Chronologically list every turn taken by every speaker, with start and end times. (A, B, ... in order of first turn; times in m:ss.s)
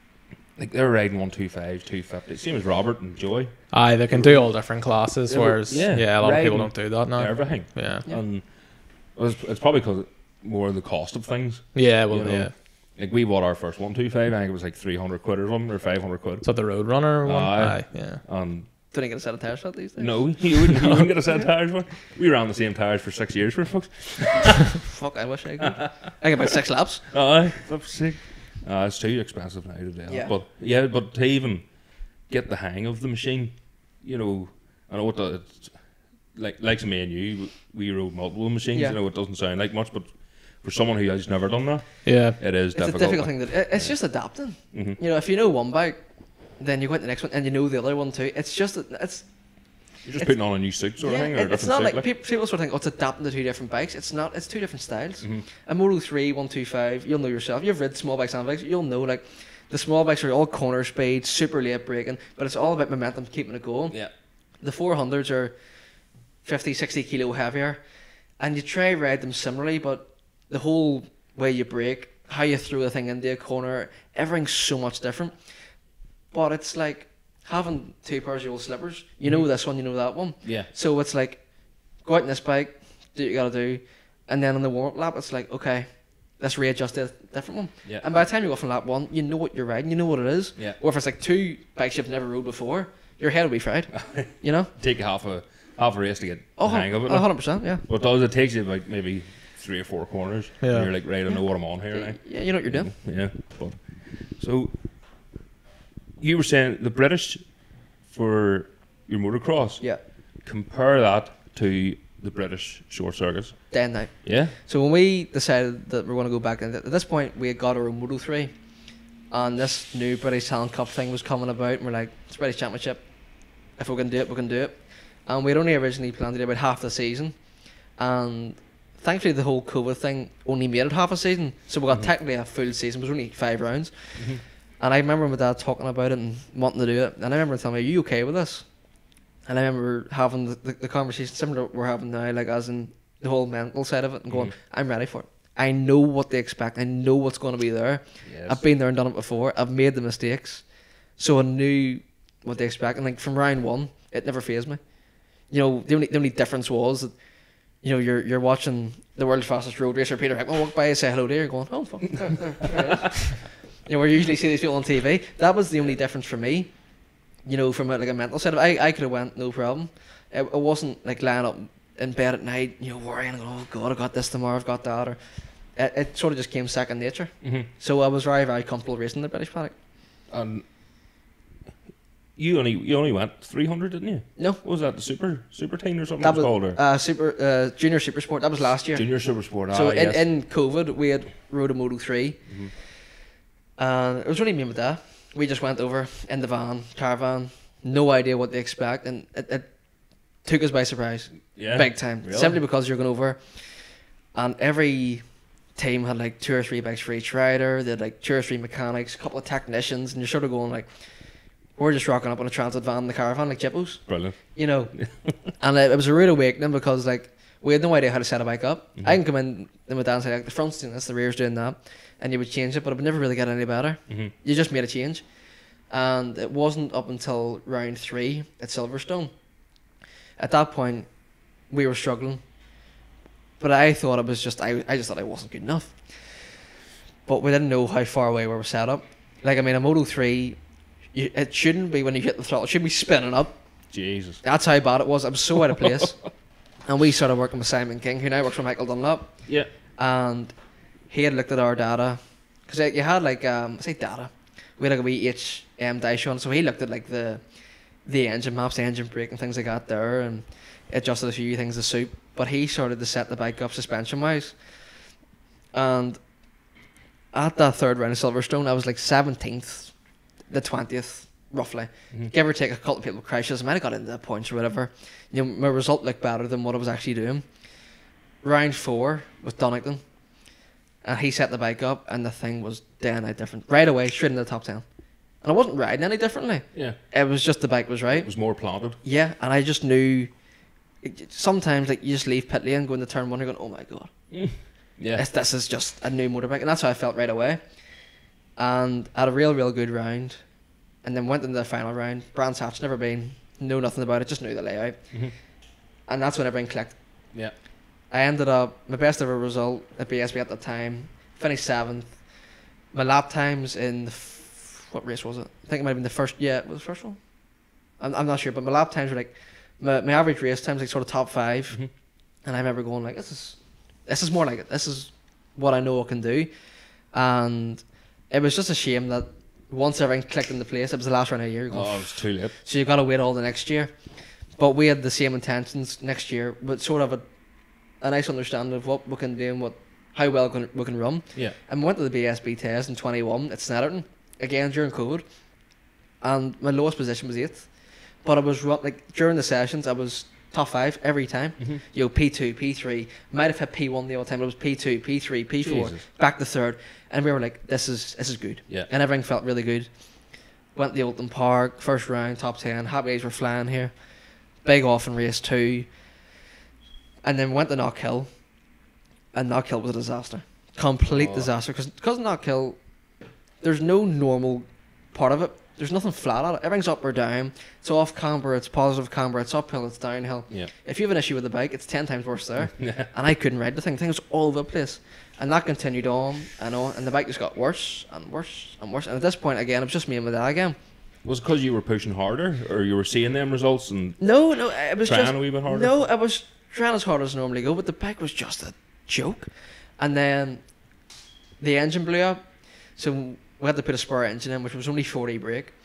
0:00.6-0:04.5 A
0:03.7-0:08.0 B
0:05.3-0:16.5 A
0:11.7-0:12.5 B
0:16.4-0:18.2 B
0:17.2-0:18.7 A
0:18.9-0:20.4 C
0:20.0-0:24.8 A
0:20.7-0:21.1 B
0:24.8-0:27.1 C
0:25.6-0:26.1 A
0:27.1-0:44.0 A
0:30.1-0:30.3 C
0:42.0-0:42.4 B
0:42.7-0:46.0 C
0:44.7-0:45.0 A
0:46.6-0:49.3 C
0:50.0-0:52.0 A
0:50.2-1:04.0 C
1:04.6-1:05.5 C
1:06.4-1:07.8 C
1:08.4-1:15.4 C
1:16.3-1:21.4 C
1:20.4-1:20.7 A
1:22.0-1:25.9 C
1:26.4-1:34.7 C
1:33.9-1:44.8 A
1:36.6-1:37.8 C
1:40.6-1:40.9 B
1:41.9-1:42.9 C
1:46.2-1:47.5 A
1:48.0-1:54.5 A
1:53.7-1:58.5 C
1:59.3-2:03.0 C
2:03.8-2:07.4 C
2:08.0-2:18.6 C
2:19.4-2:30.6 C
2:24.3-2:24.5 A
2:28.2-2:28.6 A
2:31.2-2:34.8 C
2:35.5-2:37.1 C
2:37.8-2:46.7 C
2:47.4-2:55.2 C
2:55.8-2:59.7 C
2:57.4-2:57.7 A
3:00.3-3:00.6 A
3:02.4-3:06.8 A
3:06.2-3:12.4 C
3:08.9-3:10.2 A
3:13.8-3:19.7 C
3:20.4-3:23.4 C
3:21.6-3:22.6 A
3:24.3-3:25.2 C
3:25.8-3:30.9 C
3:31.8-3:45.2 C
3:34.1-3:34.4 A
3:34.9-3:35.3 A
3:45.9-3:49.3 C
3:50.4-3:51.1 C
3:51.7-3:52.4 C
3:53.6-3:56.0 C
3:57.2-4:00.6 C
4:01.1-4:03.6 C
4:03.9-4:04.4 A
4:04.4-4:06.2 C
4:06.9-4:09.3 C
4:10.0-4:10.5 C
4:11.1-4:17.4 C
4:18.0-4:24.6 C
4:25.7-4:26.2 C
4:27.3-4:29.9 C
4:30.5-4:37.4 C
4:38.4-4:40.0 C
4:41.0-4:44.8 C
4:45.4-4:48.3 C
4:48.1-4:49.0 A
4:49.0-4:50.3 C
4:51.0-4:54.1 C
4:54.3-4:55.2 A
4:55.2-4:57.6 C
4:58.6-5:00.4 C
5:01.0-5:05.0 C
5:06.1-5:07.0 C
5:08.1-5:12.1 C
5:12.9-5:17.2 C
5:18.0-5:21.8 C
5:22.4-5:26.5 C
5:27.1-5:33.9 C
5:31.7-5:32.5 A
5:34.6-5:37.2 C
5:38.0-5:45.2 C
5:46.2-5:47.7 C
5:48.2-5:59.9 C
5:55.6-5:56.0 A
6:00.7-6:03.9 C
6:04.6-6:05.9 C
6:07.2-6:08.3 C
6:09.3-6:12.8 C
6:11.1-6:11.5 A
6:13.6-6:30.8 C
6:22.6-6:23.1 A
6:31.2-6:34.2 A
6:34.2-6:40.6 C
6:35.0-6:35.9 A
6:41.6-6:42.4 C
6:43.0-6:45.7 C